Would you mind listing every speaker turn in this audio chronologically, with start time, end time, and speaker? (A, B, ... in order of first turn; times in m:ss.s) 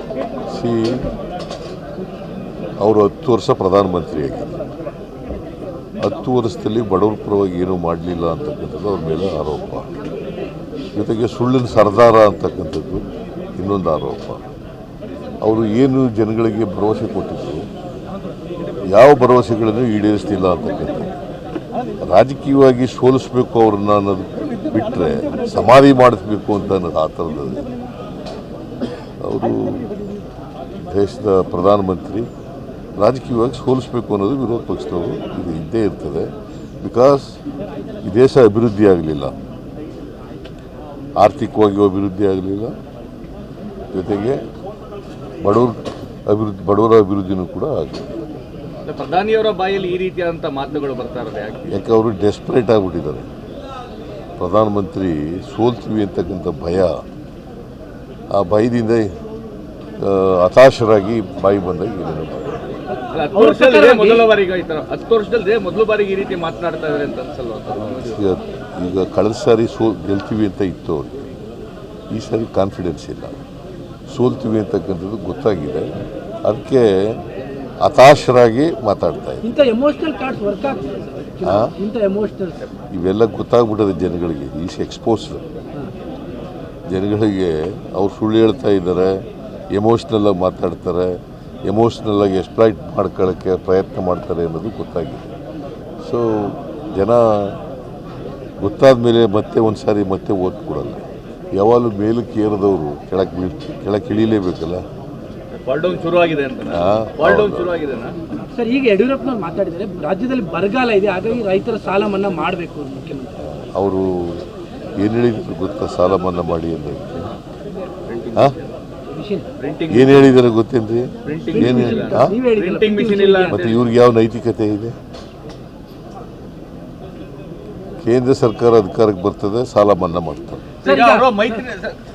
0:00.5-0:01.1 A
0:02.8-0:04.6 A
0:06.0-0:09.9 A
0:10.9-0:13.0 A
0:13.6-0:14.4 A
0:15.4-0:17.7 A
0:18.9-0:21.1 A
0:22.0-0:27.6 A
0:29.2-0:29.9 A
0:30.8-0:32.3 A
0:33.0-0:36.3 A
0:36.8-0:37.4 A
0:38.0-0:39.3 A
0:41.2-0:42.8 A
0:43.9-0:44.4 A
0:45.4-0:48.1 A
0:48.8-0:51.8 B
0:51.7-0:53.3 A
0:54.4-0:57.0 A
0:58.3-0:59.1 A
1:00.0-1:02.6 A
1:03.1-1:08.2 B
1:03.3-1:04.3 C
1:07.8-1:11.3 A
1:12.1-1:13.4 A
1:14.1-1:15.9 A
1:16.4-1:17.2 A
1:17.8-1:19.4 A
1:19.4-1:22.6 C
1:21.4-1:21.7 A
1:22.9-1:25.4 A
1:26.9-1:35.3 A
1:36.0-1:37.6 A
1:38.6-1:44.8 A
1:45.6-1:48.2 B
1:46.7-1:47.7 A
1:48.5-1:53.3 C
1:53.4-1:54.5 A
1:55.0-1:57.3 A
1:58.1-1:58.6 B
1:59.1-1:59.5 C
1:59.6-2:00.3 B
1:59.9-2:02.4 A
2:01.2-2:03.9 B
2:01.5-2:03.6 C
2:03.4-2:05.0 A
2:08.0-2:10.7 A
2:10.8-2:12.0 B
2:10.8-2:11.6 C